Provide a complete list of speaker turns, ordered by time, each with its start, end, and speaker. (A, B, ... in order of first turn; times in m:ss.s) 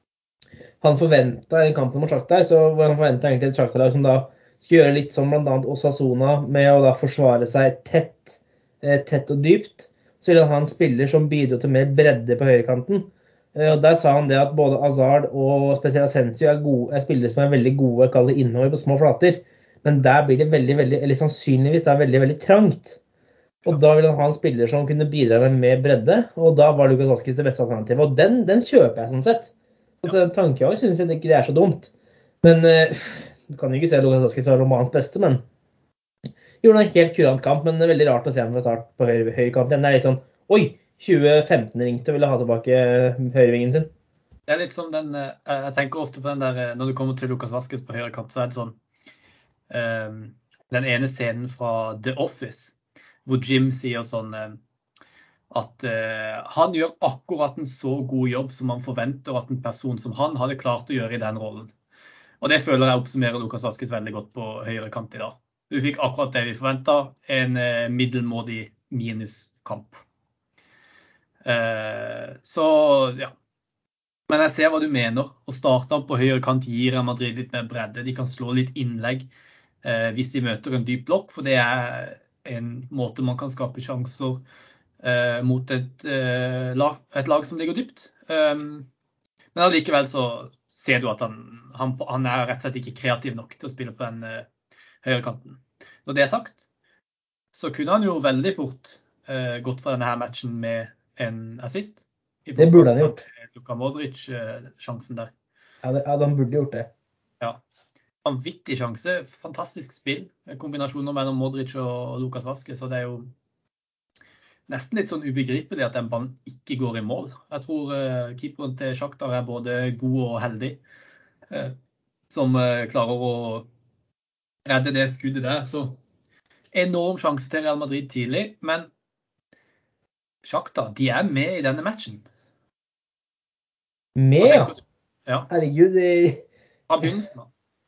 0:00.8-0:23.0 A
0:23.6-0:31.9 A
0:32.4-0:35.4 A
0:36.6-0:43.9 A
0:44.5-0:48.8 B
0:49.7-0:54.6 B
0:55.5-1:01.7 B
1:02.4-1:10.0 B
1:11.4-1:13.3 B
1:14.3-1:19.3 B
1:19.8-1:24.4 B
1:25.0-1:28.9 B
1:29.5-1:34.5 B
1:35.0-1:36.6 B
1:37.5-1:45.3 B
1:42.6-1:43.2 A
1:45.8-1:46.9 A
1:48.2-1:53.3 B
1:54.7-2:00.8 B
2:01.5-2:01.8 B
2:02.3-2:03.7 B
2:04.6-2:06.0 B
2:06.7-2:08.9 B
2:10.4-2:12.3 B
2:14.2-2:14.7 A
2:14.4-2:15.5 B
2:15.5-2:16.4 A
2:16.9-2:17.5 B